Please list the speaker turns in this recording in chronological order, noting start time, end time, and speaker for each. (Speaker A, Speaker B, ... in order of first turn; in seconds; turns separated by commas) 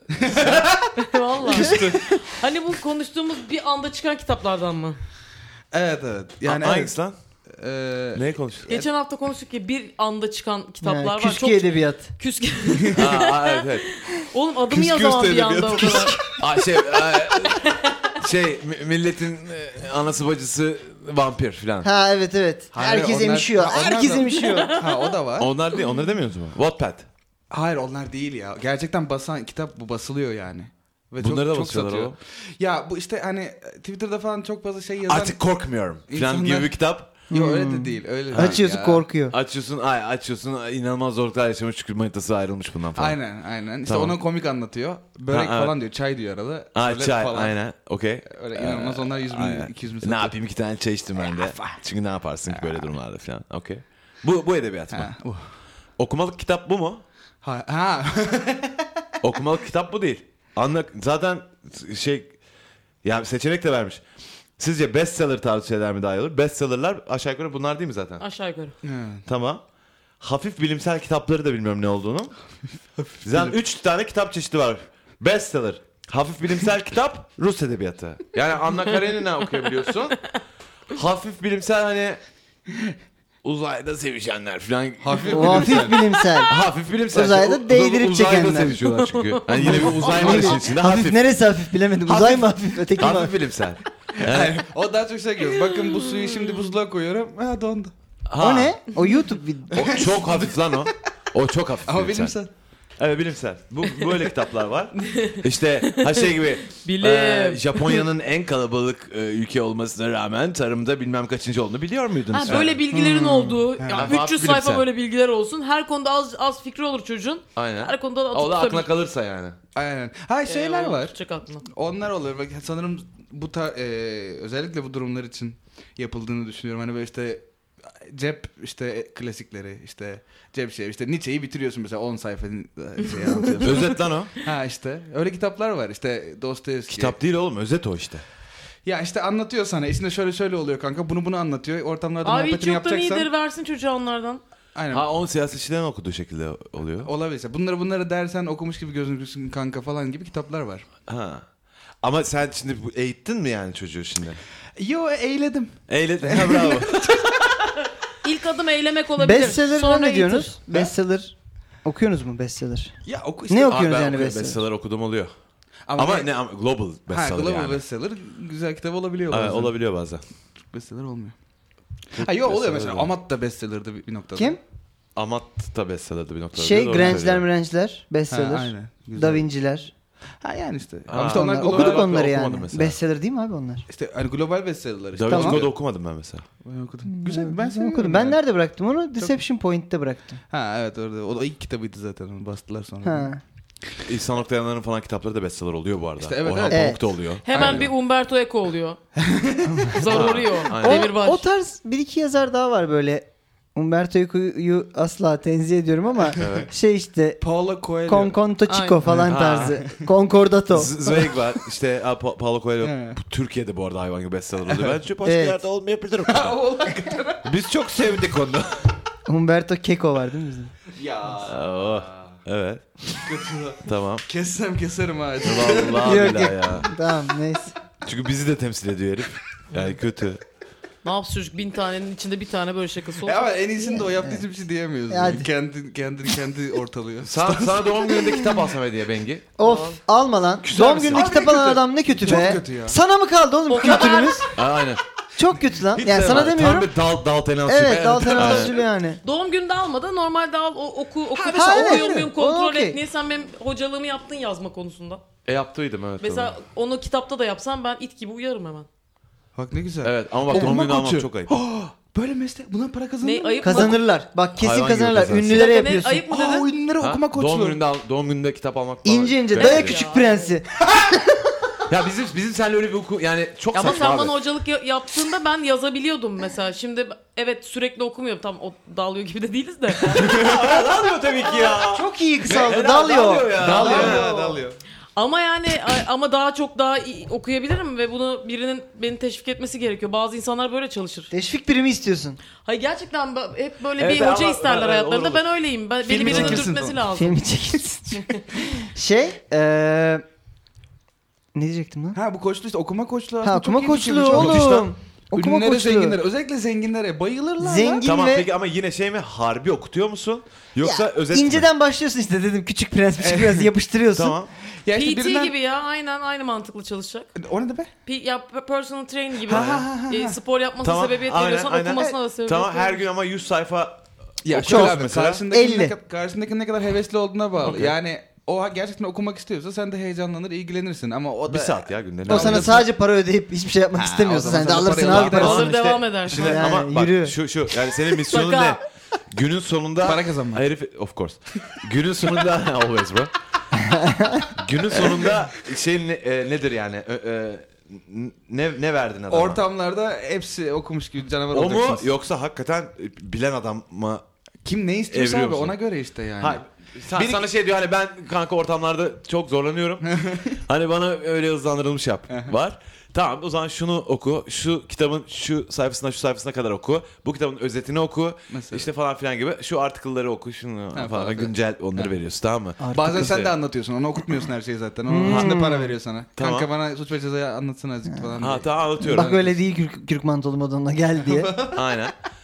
Speaker A: 0.1-0.9, Speaker B: 0.3-0.7, Speaker C: 0.9-5.0, Speaker A: 1.4-2.0, Speaker A: 5.7-6.9, Speaker B: 6.4-7.2, Speaker A: 7.5-8.2, Speaker B: 8.1-8.8, Speaker C: 8.7-16.2, Speaker D: 10.8-12.1, Speaker B: 12.9-13.9, Speaker A: 14.7-16.4, Speaker B: 16.4-21.9, Speaker C: 17.4-18.1, Speaker D: 21.8-24.8, Speaker A: 22.7-25.5, Speaker C: 24.4-24.9, Speaker B: 25.4-27.1, Speaker A: 27.5-35.4, Speaker B: 31.2-32.2, Speaker B: 35.1-37.1, Speaker A: 36.1-36.8, Speaker A: 37.3-39.0, Speaker D: 37.3-39.4, Speaker B: 38.3-38.6, Speaker B: 39.3-43.2, Speaker A: 43.0-47.5, Speaker B: 43.9-44.2, Speaker B: 45.3-45.7, Speaker B: 46.7-55.1, Speaker A: 48.3-50.3, Speaker A: 51.2-51.8, Speaker A: 52.5-52.8, Speaker A: 54.9-55.5, Speaker B: 56.0-57.0, Speaker A: 57.4-58.9, Speaker B: 59.2-62.3, Speaker B: 63.0-64.0, Speaker B: 64.6-68.2, Speaker C: 68.2-68.7, Speaker A: 68.8-69.2, Speaker B: 69.2-69.6, Speaker B: 70.2-72.3, Speaker A: 73.1-73.5, Speaker B: 73.2-80.2, Speaker B: 80.9-82.2, Speaker B: 83.4-85.9, Speaker A: 85.0-86.0, Speaker D: 85.3-86.5, Speaker B: 86.5-91.2, Speaker D: 87.1-88.8, Speaker C: 89.0-89.8, Speaker D: 89.6-93.3, Speaker A: 89.6-90.5, Speaker B: 92.0-94.6, Speaker A: 94.2-97.9, Speaker B: 98.3-98.8, Speaker D: 98.4-100.0, Speaker B: 99.7-102.3, Speaker A: 99.8-100.4, Speaker A: 101.9-102.5, Speaker B: 103.0-112.8, Speaker C: 105.0-108.0, Speaker C: 112.3-118.9, Speaker D: 112.9-113.6, Speaker A: 113.8-114.1, Speaker B: 113.9-114.8, Speaker B: 117.5-119.6, Speaker A: 119.7-121.1, Speaker C: 120.5-121.6, Speaker A: 121.7-137.2, Speaker B: 133.6-134.3, Speaker B: 136.9-138.2, Speaker A: 138.8-143.3, Speaker C: 142.2-144.4, Speaker A: 144.7-145.1, Speaker B: 144.9-147.1, Speaker A: 147.0-150.8, Speaker B: 151.1-151.4, Speaker B: 152.0-154.4, Speaker A: 154.8-157.3, Speaker B: 155.9-157.6, Speaker C: 158.2-160.5, Speaker D: 159.2-161.3, Speaker D: 161.8-162.9, Speaker A: 163.1-163.8, Speaker D: 163.5-164.6, Speaker B: 163.6-165.3, Speaker A: 165.9-166.3, Speaker B: 165.9-167.8, Speaker A: 167.1-169.7, Speaker B: 169.3-170.2, Speaker A: 170.7-171.3, Speaker B: 172.1-173.1, Speaker A: 172.1-174.6, Speaker B: 175.2-177.5, Speaker D: 176.5-179.9, Speaker A: 178.3-179.5, Speaker A: 180.4-182.3, Speaker B: 181.1-183.0, Speaker D: 181.2-183.8, Speaker A: 183.9-185.7, Speaker B: 185.1-186.4, Speaker D: 185.3-185.6, Speaker A: 186.6-188.4, Speaker D: 187.1-190.4, Speaker A: 190.5-193.3, Speaker D: 193.0-193.4, Speaker B: 194.0-197.9, Speaker A: 196.2-196.9, Speaker D: 196.7-197.0, Speaker C: 197.4-199.0, Speaker A: 197.5-197.9, Speaker A: 199.2-199.9, Speaker D: 199.7-207.4, Speaker C: 199.9-201.5, Speaker B: 200.0-201.1, Speaker B: 206.4-206.7, Speaker A: 207.4-208.4, Speaker D: 208.1-211.1, Speaker C: 208.7-209.0, Speaker A: 209.0-210.0, Speaker B: 209.2-209.8, Speaker B: 210.7-216.6, Speaker A: 212.8-213.2, Speaker A: 214.7-214.9, Speaker D: 215.2-215.6, Speaker A: 216.2-217.5, Speaker B: 217.4-218.9, Speaker D: 219.3-220.7, Speaker A: 220.9-222.3, Speaker B: 221.4-223.1, Speaker A: 223.1-226.4, Speaker B: 223.8-224.2, Speaker B: 225.4-226.9, Speaker D: 226.0-227.7, Speaker B: 228.0-230.4, Speaker C: 231.0-233.5, Speaker A: 233.2-237.9, Speaker D: 233.9-234.4, Speaker D: 235.1-235.5, Speaker B: 237.2-239.5, Speaker D: 239.6-244.5, Speaker C: 239.6-240.0, Speaker B: 240.6-241.4, Speaker A: 240.7-243.0, Speaker C: 243.7-244.5, Speaker B: 244.5-245.0, Speaker D: 245.4-246.9, Speaker B: 245.9-248.8, Speaker D: 247.7-249.2, Speaker A: 248.0-248.7, Speaker C: 249.2-255.2, Speaker A: 251.3-252.2, Speaker D: 251.5-253.0, Speaker B: 255.4-256.5, Speaker C: 256.2-258.9, Speaker A: 259.6-264.0, Speaker B: 260.0-261.5, Speaker D: 260.5-260.8, Speaker C: 263.2-264.0, Speaker D: 263.6-266.2, Speaker B: 264.6-265.7, Speaker C: 265.5-266.7, Speaker A: 266.3-267.8, Speaker B: 267.0-270.0, Speaker D: 269.0-271.2, Speaker C: 269.5-270.5, Speaker B: 271.9-274.3, Speaker C: 273.7-280.5, Speaker B: 280.1-284.4, Speaker A: 280.1-280.7, Speaker D: 281.6-284.2, Speaker A: 282.4-282.8, Speaker A: 283.5-284.8, Speaker C: 283.8-284.6, Speaker C: 285.1-291.3, Speaker D: 291.3-292.4, Speaker C: 292.6-297.4, Speaker B: 294.0-295.4, Speaker A: 296.0-297.0, Speaker D: 296.2-300.2, Speaker D: 301.5-302.2, Speaker A: 302.1-308.1, Speaker D: 303.4-306.2, Speaker B: 304.3-304.7, Speaker D: 307.6-308.5, Speaker B: 308.0-311.7, Speaker D: 310.8-314.4, Speaker A: 313.2-313.7, Speaker B: 314.1-314.5, Speaker A: 314.8-315.5, Speaker C: 314.9-317.3, Speaker A: 317.4-317.9, Speaker C: 318.0-323.0, Speaker A: 319.5-320.4, Speaker B: 319.5-319.9, Speaker B: 320.8-325.4, Speaker A: 324.4-332.9, Speaker D: 324.6-325.0, Speaker D: 325.5-325.9, Speaker B: 327.6-327.9, Speaker B: 331.5-332.8, Speaker D: 332.3-337.3, Speaker A: 333.9-335.7, Speaker B: 335.0-338.8, Speaker C: 335.2-336.6, Speaker C: 338.3-338.8, Speaker B: 339.3-343.3, Speaker A: 340.0-340.6, Speaker D: 343.7-344.5, Speaker B: 344.6-349.6, Speaker A: 349.3-352.1, Speaker B: 351.5-354.2, Speaker A: 354.6-357.4, Speaker B: 355.1-355.8, Speaker B: 356.4-373.5, Speaker A: 360.1-360.6, Speaker A: 362.3-362.5, Speaker A: 368.5-368.9, Speaker A: 370.9-372.1, Speaker D: 372.8-373.3, Speaker A: 372.9-379.6, Speaker D: 375.1-375.9, Speaker B: 375.2-375.6, Speaker B: 376.4-376.7, Speaker B: 378.4-379.4, Speaker D: 379.0-381.7, Speaker A: 381.2-381.8, Speaker B: 381.7-382.1